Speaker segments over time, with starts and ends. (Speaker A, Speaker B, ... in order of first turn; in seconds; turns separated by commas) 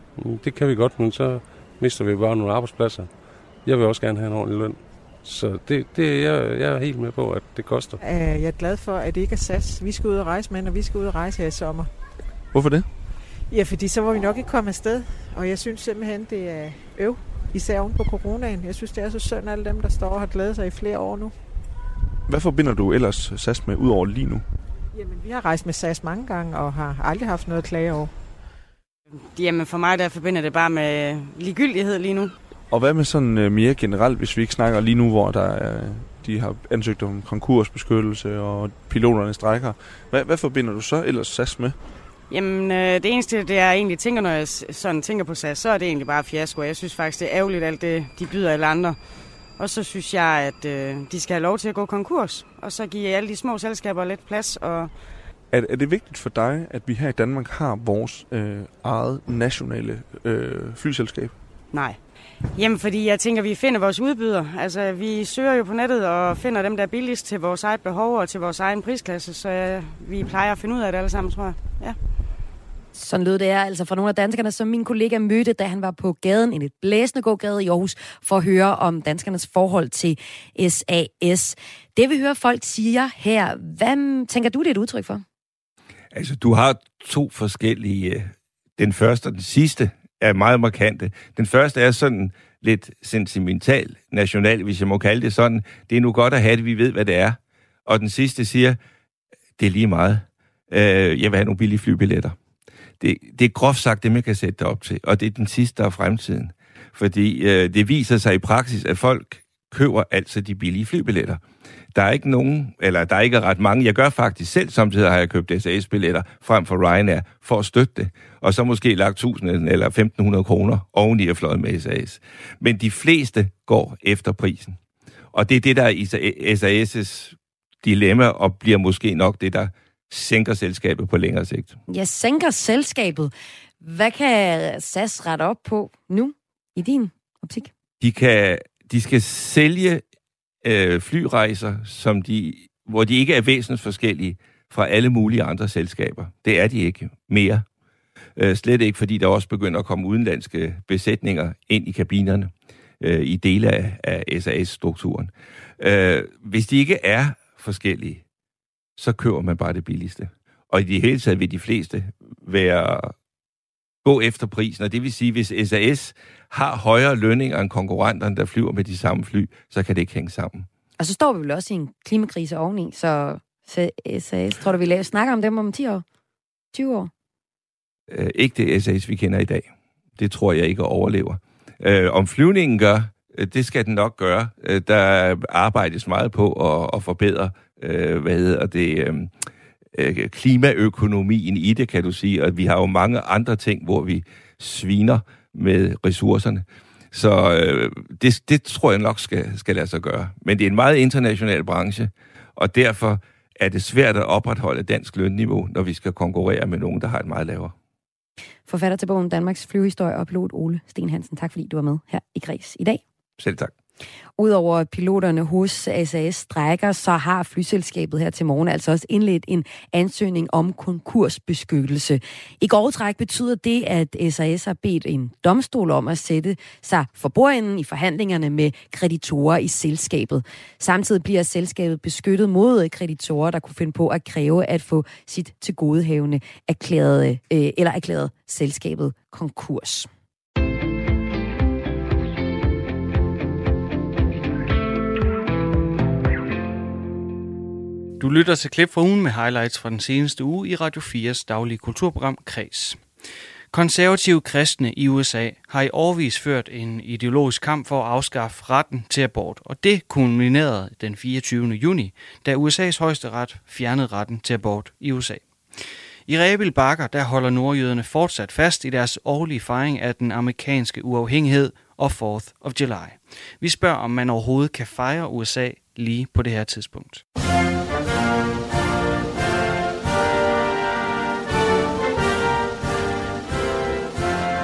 Speaker A: 0.1-8.0, Speaker B: 8.0-11.9, Speaker C: 12.5-12.9, Speaker B: 13.5-21.4, Speaker C: 22.3-24.4, Speaker B: 24.9-28.1, Speaker D: 29.3-32.3, Speaker C: 32.7-41.8, Speaker D: 42.3-49.0, Speaker D: 49.6-54.9, Speaker C: 55.5-61.4, Speaker D: 61.7-62.0, Speaker D: 62.5-72.0, Speaker E: 72.9-85.2, Speaker F: 86.1-98.8, Speaker F: 99.6-102.3, Speaker F: 103.0-111.4, Speaker F: 111.9-124.8, Speaker F: 125.3-131.7, Speaker E: 131.9-137.7, Speaker F: 138.0-140.0, Speaker F: 140.6-147.6, Speaker F: 148.4-158.2, Speaker F: 159.0-163.1, Speaker F: 164.0-170.7, Speaker E: 171.0-176.0, Speaker E: 176.7-177.1, Speaker F: 178.1-207.7, Speaker E: 208.7-213.0, Speaker F: 213.4-213.7, Speaker E: 214.4-240.1, Speaker G: 248.2-277.2